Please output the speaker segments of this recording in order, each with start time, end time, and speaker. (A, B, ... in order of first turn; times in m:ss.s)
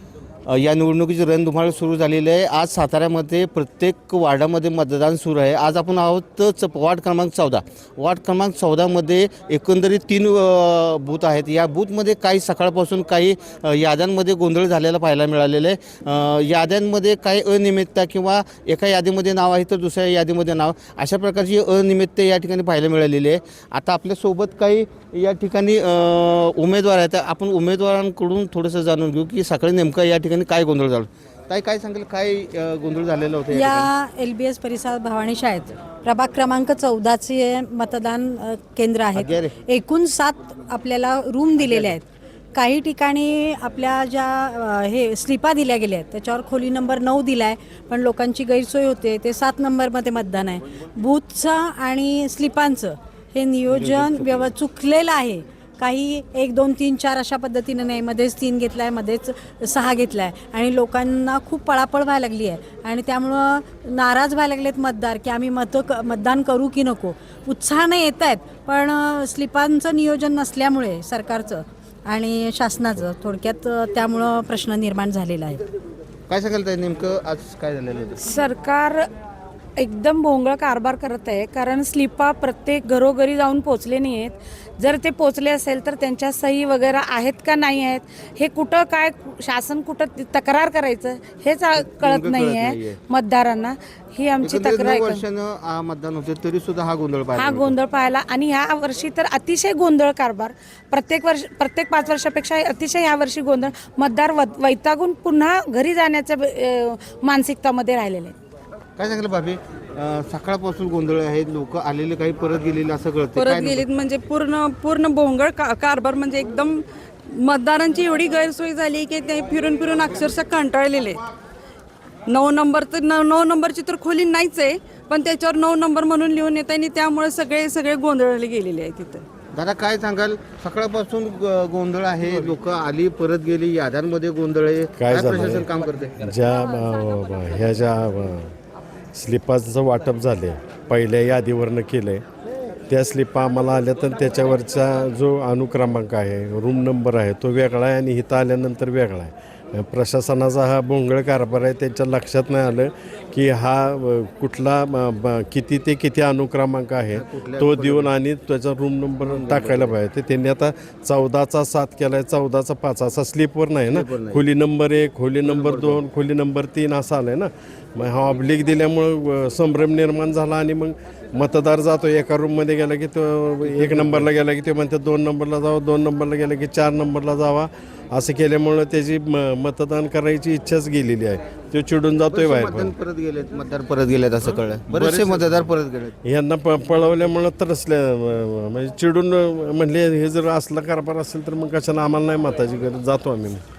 0:00.5-0:33.9 A
0:33.5-1:15.6 B
0:39.2-0:39.5 A
0:41.6-0:41.9 A
0:53.7-0:54.5 A
1:16.3-1:18.2 A
1:18.2-1:19.1 C
1:19.8-1:35.2 C
1:31.8-1:33.0 A
1:34.4-1:37.7 A
1:37.3-1:48.4 C
1:49.0-1:53.8 A
1:53.4-2:01.2 D
2:02.3-2:09.3 D
2:09.5-2:16.2 A
2:15.0-2:15.7 E
2:16.2-2:18.5 E
2:19.1-2:22.2 E
2:22.9-3:02.9 E
2:37.1-2:38.1 A
2:39.2-2:40.0 A
2:43.9-2:44.4 A
2:45.4-2:46.0 A
2:53.6-2:54.3 A
3:02.3-3:06.2 A
3:04.9-3:05.7 E
3:06.2-3:13.6 E